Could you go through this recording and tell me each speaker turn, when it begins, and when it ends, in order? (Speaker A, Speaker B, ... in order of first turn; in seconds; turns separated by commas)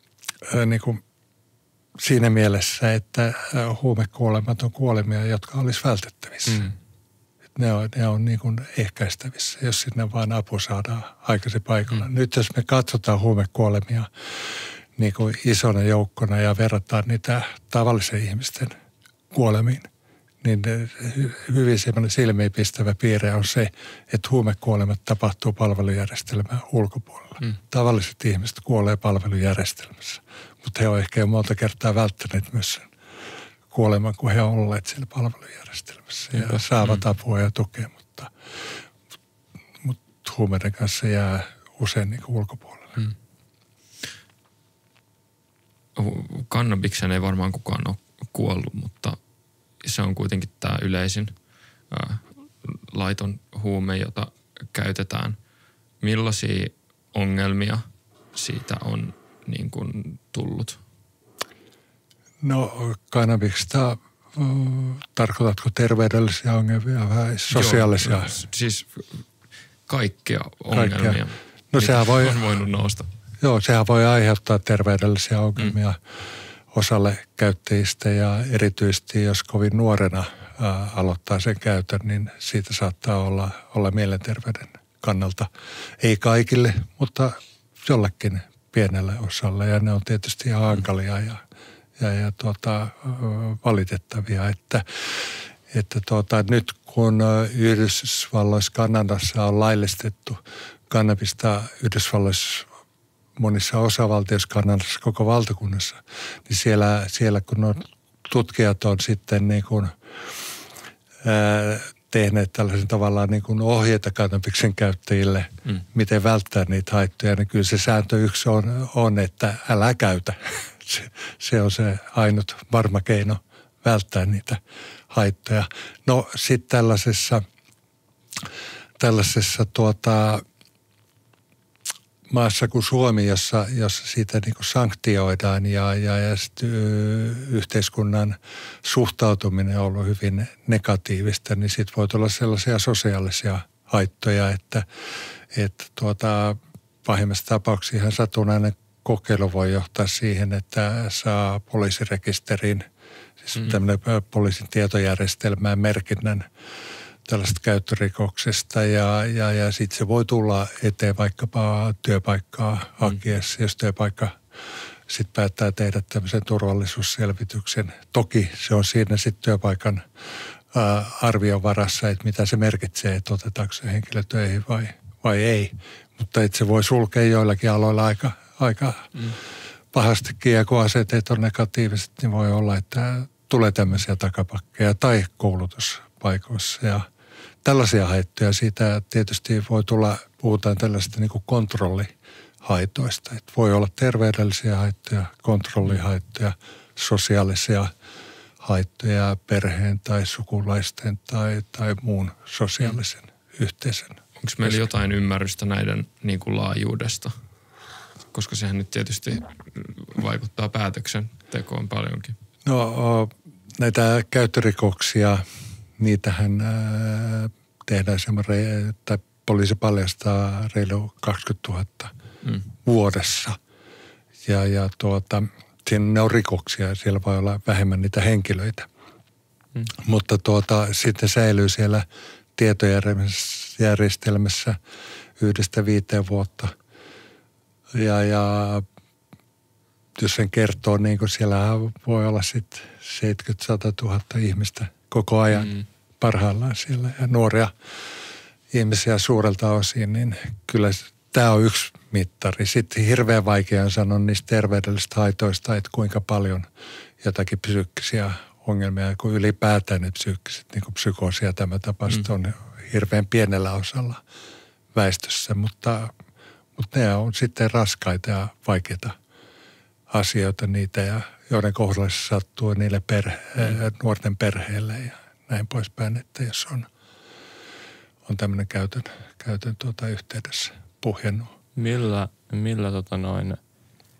Speaker A: 0.4-1.0, Speaker A: 2.0-6.7, Speaker B: 6.5-6.7, Speaker A: 7.5-18.7, Speaker A: 19.3-19.9, Speaker A: 20.4-32.9, Speaker A: 33.7-38.3, Speaker B: 36.3-36.6, Speaker A: 39.8-43.0, Speaker C: 46.0-49.2, Speaker C: 49.8-51.4, Speaker C: 51.9-55.4, Speaker C: 56.0-60.8, Speaker A: 62.4-68.3, Speaker C: 67.5-69.2, Speaker C: 69.9-73.1, Speaker A: 70.7-71.2, Speaker A: 71.7-72.4, Speaker A: 73.4-76.0, Speaker A: 76.7-85.5, Speaker A: 86.0-91.4, Speaker A: 92.0-100.4, Speaker A: 100.9-102.7, Speaker A: 103.4-110.0, Speaker A: 111.2-127.4, Speaker A: 129.0-130.4, Speaker A: 132.3-144.8, Speaker A: 145.5-152.8, Speaker A: 153.4-156.4, Speaker A: 157.3-164.4, Speaker A: 165.1-170.0, Speaker A: 170.7-179.1, Speaker A: 179.9-187.1, Speaker A: 187.6-197.9, Speaker A: 198.6-204.7, Speaker C: 204.4-207.3, Speaker C: 208.3-212.3, Speaker A: 212.6-215.4, Speaker A: 216.0-222.1, Speaker A: 222.8-223.6, Speaker A: 224.4-228.9, Speaker A: 230.0-234.8, Speaker A: 235.4-236.7, Speaker A: 237.9-238.8, Speaker A: 240.2-247.7, Speaker B: 245.6-245.8, Speaker A: 248.7-256.7, Speaker A: 257.2-264.2, Speaker A: 264.9-266.1, Speaker A: 266.8-269.1, Speaker A: 270.1-276.9, Speaker A: 278.2-281.5, Speaker B: 281.8-283.6